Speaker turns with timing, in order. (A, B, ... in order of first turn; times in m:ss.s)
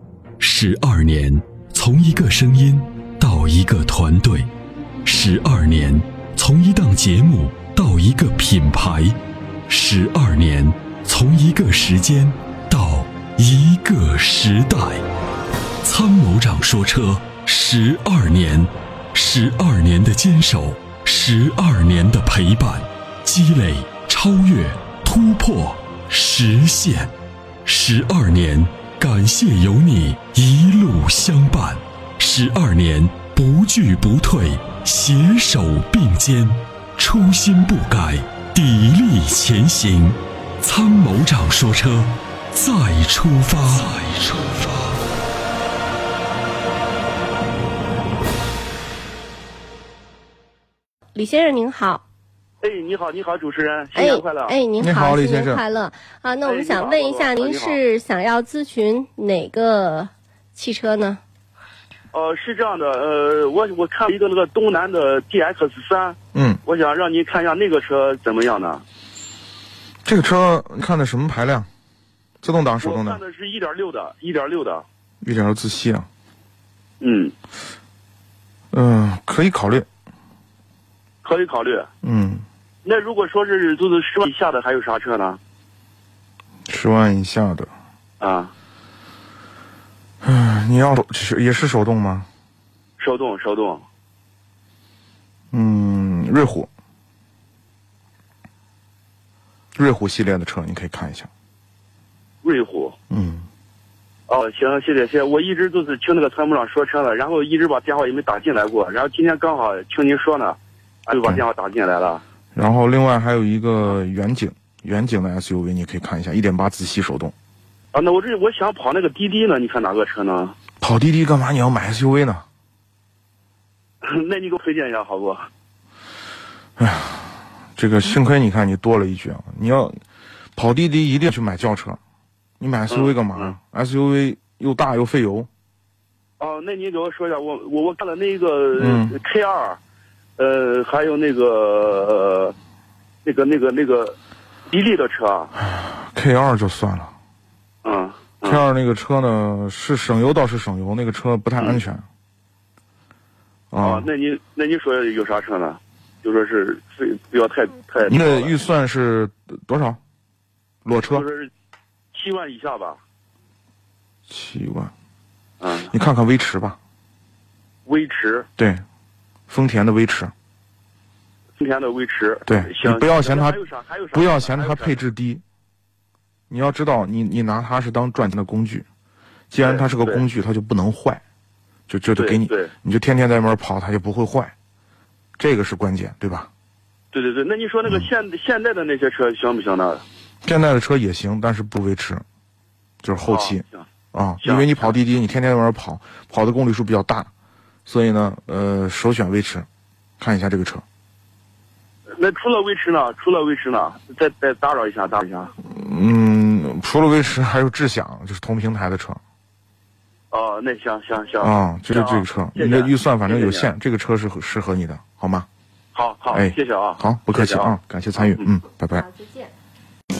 0:00.4-0:04.5 A
0:05.0-0:15.0 A
0:15.8-0:27.1 A
0:27.6-0:44.9 A
0:51.1-0:52.0 B
0:52.6-0:54.6 C
0:53.9-1:01.2 B
0:54.8-0:55.6 D
0:56.4-0:57.8 C
1:02.1-1:08.8 C
1:06.3-1:06.6 D
1:10.0-1:11.7 D
1:12.4-1:13.2 D
1:12.8-1:14.8 C
1:15.2-1:16.1 D
1:17.0-1:17.3 C
1:18.7-1:19.8 D
1:21.2-1:21.9 C
1:22.0-1:22.4 D
1:22.8-1:25.4 C
1:26.7-1:27.7 D
1:28.2-1:28.5 C
1:30.2-1:32.3 D
1:33.0-1:33.8 C
1:35.5-1:36.7 D
1:39.7-1:41.3 D
1:42.4-1:43.0 C
1:43.1-1:43.5 D
1:44.3-1:52.2 C
1:52.5-1:57.3 D
1:57.9-2:00.6 C
2:00.8-2:02.4 D
2:04.0-2:05.5 C
2:06.8-2:10.0 D
2:10.6-2:12.0 D
2:12.6-2:15.5 D
2:12.9-2:13.5 C
2:16.4-2:19.8 C
2:18.8-2:19.1 D
2:20.4-2:22.5 C
2:23.2-2:24.2 C
2:24.7-2:25.5 C
2:25.6-2:27.1 D
2:27.8-2:28.6 C
2:28.4-2:32.0 D
2:33.7-2:34.1 D
2:33.8-2:38.6 C
2:38.0-2:40.0 D
2:40.8-2:41.2 D
2:41.0-2:41.5 C
2:42.1-2:43.0 C
2:44.3-2:44.9 D
2:45.6-2:45.9 C
2:45.9-2:46.8 D
2:47.8-2:48.5 C
2:48.6-2:48.8 D
2:49.5-2:50.3 D
2:51.6-2:55.0 C
2:52.4-2:55.4 D
2:56.5-2:58.8 D
2:59.5-3:01.2 D
2:59.6-3:00.2 C
3:01.9-3:04.5 D
3:02.2-3:02.7 C
3:05.4-3:06.5 D
3:07.1-3:10.0 C
3:10.4-3:12.2 D
3:13.0-3:17.3 D
3:13.3-3:13.9 C
3:14.4-3:15.0 C
3:17.8-3:19.7 D
3:20.2-3:20.8 D
3:22.1-3:25.5 C
3:25.6-3:29.2 D
3:30.3-3:33.7 C
3:31.4-3:35.5 D
3:35.9-3:38.4 C
3:36.3-3:39.1 D
3:38.9-3:39.5 B